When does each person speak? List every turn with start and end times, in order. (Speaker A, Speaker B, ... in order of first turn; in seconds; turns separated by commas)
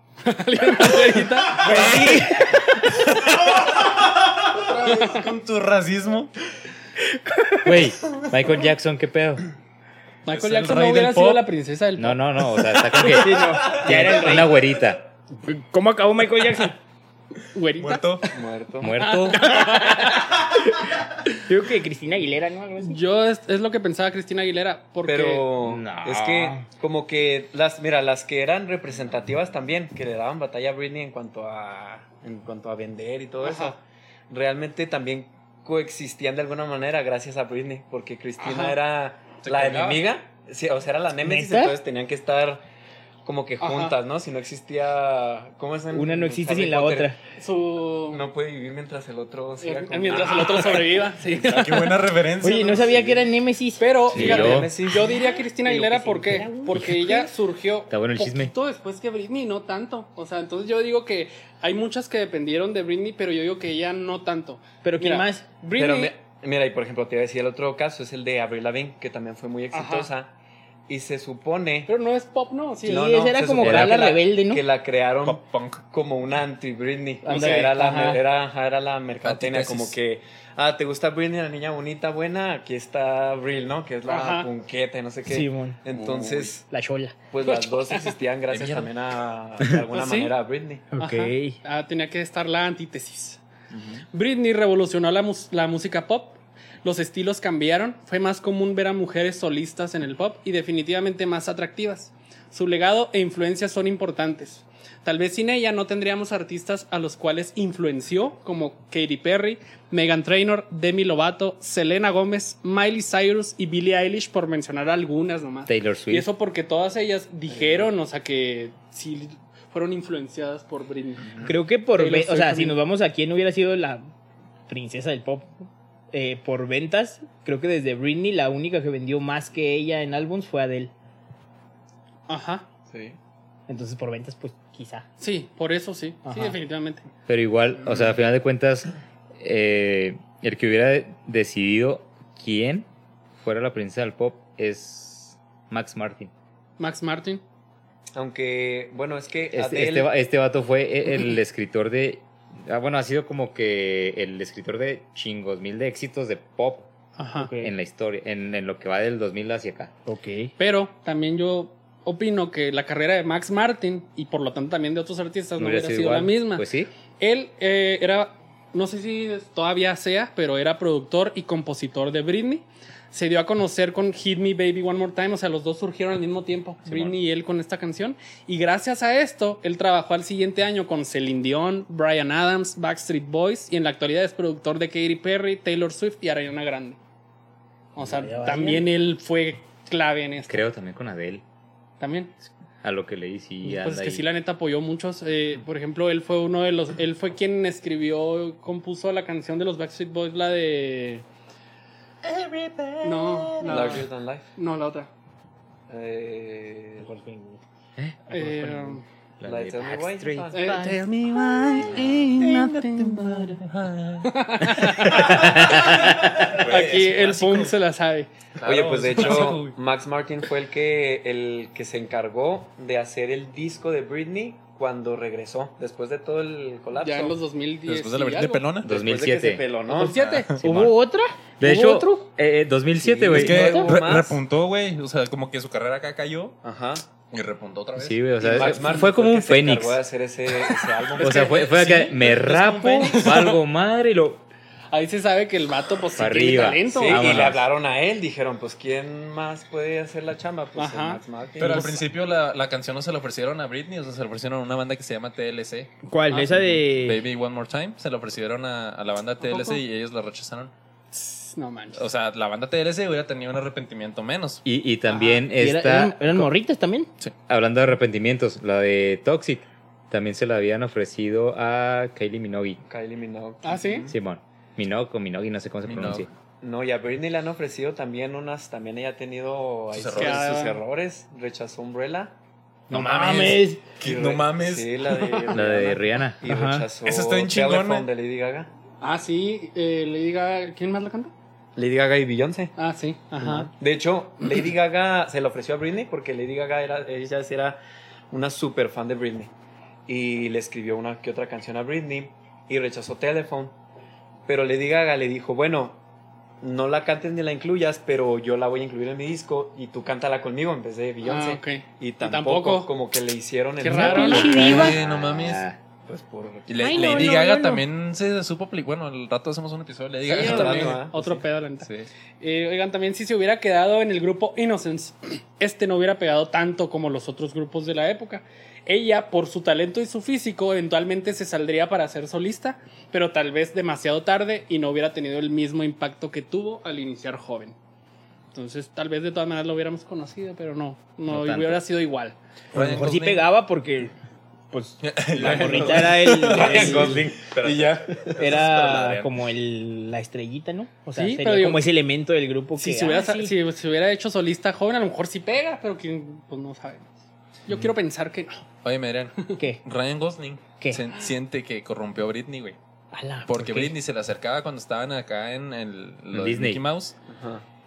Speaker A: 0.2-3.0, Speaker B: 1.6-2.4, Speaker C: 1.6-2.3, Speaker C: 2.9-6.3, Speaker A: 4.8-5.2, Speaker B: 7.2-7.6, Speaker D: 7.6-9.4, Speaker A: 10.2-12.2, Speaker C: 10.3-11.4, Speaker D: 12.0-15.1, Speaker B: 13.0-14.5, Speaker B: 15.4-16.8, Speaker A: 17.5-18.2, Speaker C: 17.8-18.3, Speaker E: 18.3-18.9, Speaker D: 18.8-19.7, Speaker A: 19.0-20.3, Speaker B: 19.4-23.0, Speaker A: 22.8-25.5, Speaker E: 25.1-33.8, Speaker D: 25.6-26.6, Speaker A: 33.4-33.8, Speaker E: 34.3-42.6, Speaker A: 38.4-38.8, Speaker C: 39.4-40.0, Speaker B: 41.2-41.8, Speaker E: 43.2-47.1, Speaker A: 43.6-44.0, Speaker B: 45.9-47.2, Speaker A: 47.4-48.2, Speaker E: 48.1-51.0, Speaker A: 49.6-52.1, Speaker C: 51.3-53.1, Speaker B: 52.4-53.9, Speaker E: 52.8-53.2, Speaker A: 53.8-66.1, Speaker D: 54.1-54.7, Speaker E: 54.1-55.2, Speaker B: 55.6-57.3, Speaker D: 57.9-58.5, Speaker B: 64.8-65.5, Speaker E: 65.7-70.3, Speaker A: 69.7-70.1, Speaker E: 70.9-71.9, Speaker A: 71.9-73.1, Speaker B: 72.8-74.6, Speaker E: 72.8-86.6, Speaker D: 73.6-74.0, Speaker C: 75.2-75.8, Speaker B: 77.2-78.2, Speaker A: 77.3-77.7, Speaker C: 79.2-80.0, Speaker A: 84.0-84.5, Speaker B: 85.2-85.8, Speaker C: 85.9-86.5, Speaker B: 86.7-87.1, Speaker E: 87.3-90.9, Speaker A: 87.5-88.1, Speaker C: 88.5-88.9, Speaker A: 89.9-90.3, Speaker B: 90.9-91.6, Speaker A: 91.0-93.4, Speaker E: 93.7-94.0, Speaker A: 94.1-121.3, Speaker D: 115.7-116.3, Speaker E: 117.5-117.9, Speaker B: 121.4-124.0, Speaker A: 122.0-122.8, Speaker B: 124.7-130.9, Speaker A: 132.3-132.7, Speaker E: 132.9-133.2, Speaker B: 133.7-135.1, Speaker A: 135.2-137.0, Speaker B: 136.2-136.6, Speaker D: 137.3-142.9, Speaker D: 143.4-146.3, Speaker A: 146.8-147.4, Speaker E: 148.2-150.1, Speaker D: 149.5-156.9, Speaker A: 157.2-157.5, Speaker B: 157.4-157.7, Speaker D: 157.6-159.9, Speaker B: 160.1-160.5, Speaker A: 160.6-166.7, Speaker D: 165.6-166.9, Speaker A: 167.2-187.0, Speaker C: 176.8-177.1, Speaker A: 187.9-190.6, Speaker B: 188.0-188.8, Speaker D: 190.5-191.4, Speaker A: 192.0-192.3, Speaker D: 192.8-194.2, Speaker A: 193.6-201.2, Speaker C: 202.2-204.0, Speaker A: 203.0-205.1, Speaker E: 203.6-204.5, Speaker E: 205.9-207.1, Speaker B: 207.0-207.6, Speaker D: 208.0-210.7, Speaker A: 208.3-209.0, Speaker E: 209.4-210.9, Speaker A: 210.5-213.6, Speaker C: 211.6-217.7, Speaker D: 211.8-212.3, Speaker A: 214.2-218.3, Speaker D: 215.2-216.5, Speaker C: 218.6-219.7, Speaker E: 218.6-227.4, Speaker A: 219.2-219.6, Speaker A: 226.9-228.7, Speaker C: 227.8-228.9, Speaker D: 228.8-229.7, Speaker E: 228.8-230.2, Speaker A: 229.9-230.5, Speaker C: 230.1-230.5, Speaker D: 230.6-231.0, Speaker B: 230.6-232.3, Speaker D: 231.6-233.7, Speaker E: 232.9-234.4, Speaker C: 233.3-236.6, Speaker B: 233.5-233.9, Speaker E: 236.6-237.0, Speaker C: 237.3-238.8, Speaker D: 237.9-240.0, Speaker E: 238.4-241.8, Speaker A: 241.2-242.3, Speaker D: 241.2-244.4, Speaker C: 241.7-243.3, Speaker A: 243.1-243.6, Speaker A: 244.9-247.3, Speaker D: 246.2-247.7, Speaker E: 246.8-251.9, Speaker A: 250.8-252.0, Speaker C: 251.6-260.7, Speaker B: 256.1-257.2, Speaker A: 259.4-259.8, Speaker A: 261.1-262.0, Speaker C: 261.9-264.6, Speaker D: 264.6-266.4, Speaker A: 265.1-265.4, Speaker B: 265.5-267.1, Speaker D: 267.5-272.8, Speaker E: 272.8-274.1, Speaker A: 273.6-274.1, Speaker D: 274.1-276.3, Speaker C: 275.8-276.3, Speaker E: 276.6-282.3, Speaker C: 279.9-280.4, Speaker A: 280.1-280.8, Speaker B: 282.9-283.8, Speaker C: 282.9-285.2, Speaker E: 284.0-288.7, Speaker D: 285.5-286.4, Speaker B: 286.4-286.9, Speaker C: 287.0-288.1, Speaker A: 289.0-291.3, Speaker E: 291.8-292.8, Speaker A: 292.8-293.7, Speaker E: 293.4-297.8, Speaker E: 298.3-299.5, Speaker E: 300.1-303.8, Speaker E: 304.5-306.0, Speaker E: 306.6-314.6, Speaker A: 311.2-312.9, Speaker A: 313.8-314.8, Speaker D: 313.9-315.8, Speaker B: 314.1-314.9, Speaker C: 314.5-315.6, Speaker E: 316.1-317.1, Speaker C: 316.7-321.1, Speaker B: 316.8-317.8, Speaker A: 320.3-321.9, Speaker E: 320.3-321.4, Speaker C: 321.8-322.1, Speaker A: 322.4-337.7, Speaker A: 338.5-342.3, Speaker D: 341.3-341.8, Speaker C: 342.7-343.4, Speaker B: 342.7-344.1, Speaker B: 344.7-347.2, Speaker C: 345.0-349.3, Speaker E: 345.3-348.4, Speaker B: 348.4-353.5, Speaker A: 351.1-351.8, Speaker A: 352.8-357.1, Speaker A: 357.7-358.6, Speaker C: 358.8-362.8, Speaker B: 363.1-363.9, Speaker C: 363.5-367.1, Speaker D: 366.3-366.8, Speaker E: 367.3-367.6